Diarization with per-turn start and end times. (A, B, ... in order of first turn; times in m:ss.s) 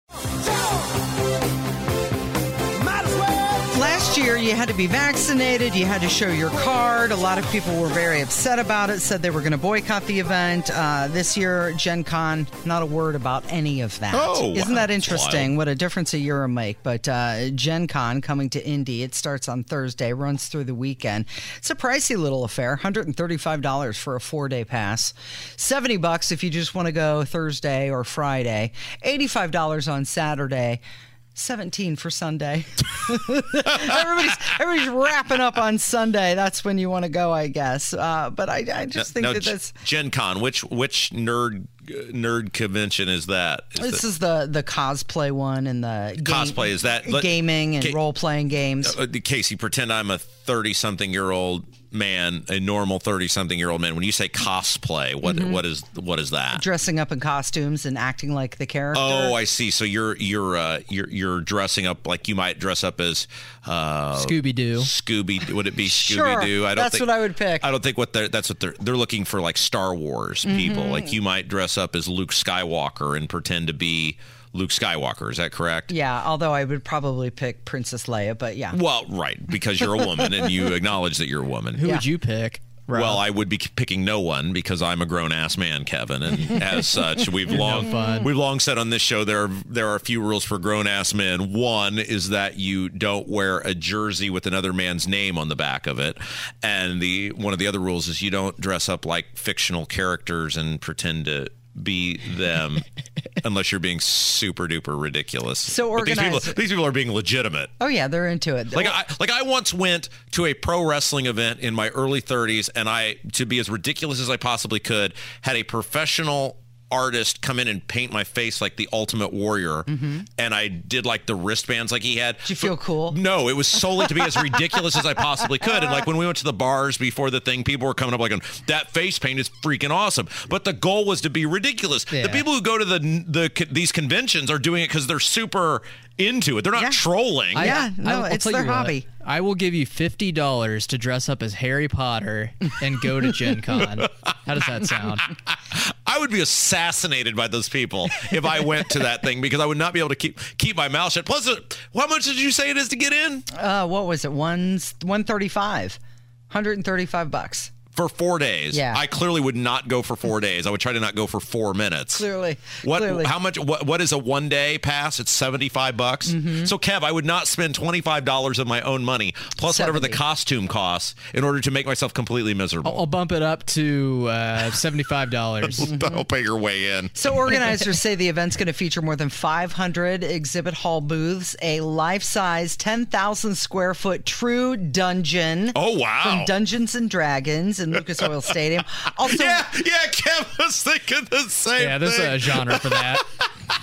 0:03.7-0:30.8 A
0:14.1-0:15.5 B
0:31.3-0:39.7 A
0:39.0-0:44.0 B
0:43.8-0:49.0 A
0:46.2-0:48.0 B
0:48.8-0:56.6 B
0:55.2-0:55.6 A
0:56.5-0:59.4 A
0:58.9-1:15.9 B
1:04.2-1:04.9 C
1:05.8-1:07.7 A
1:10.4-1:11.1 A
1:15.9-1:18.8 A
1:18.7-1:21.8 B
1:21.7-1:23.2 C
1:22.9-1:42.8 B
1:27.5-1:28.3 C
1:43.4-1:47.7 B
1:45.6-1:46.6 A
1:47.8-1:49.0 A
1:48.7-2:17.8 B
1:59.9-2:00.2 A
2:02.4-2:03.2 A
2:12.1-2:12.4 C
2:16.8-2:17.0 A
2:17.5-2:19.1 A
2:17.5-2:25.3 C
2:25.5-2:33.5 B
2:33.5-2:37.7 A
2:37.9-2:42.2 B
2:38.7-2:39.0 A
2:42.1-2:43.3 A
2:42.8-2:53.1 B
2:46.3-2:46.7 A
2:49.6-2:50.2 A
2:52.8-2:55.9 C
2:55.6-2:57.6 B
2:55.8-2:56.2 A
2:57.1-3:09.7 A
3:05.7-3:06.5 B
3:09.2-3:13.5 B
3:11.8-3:13.3 C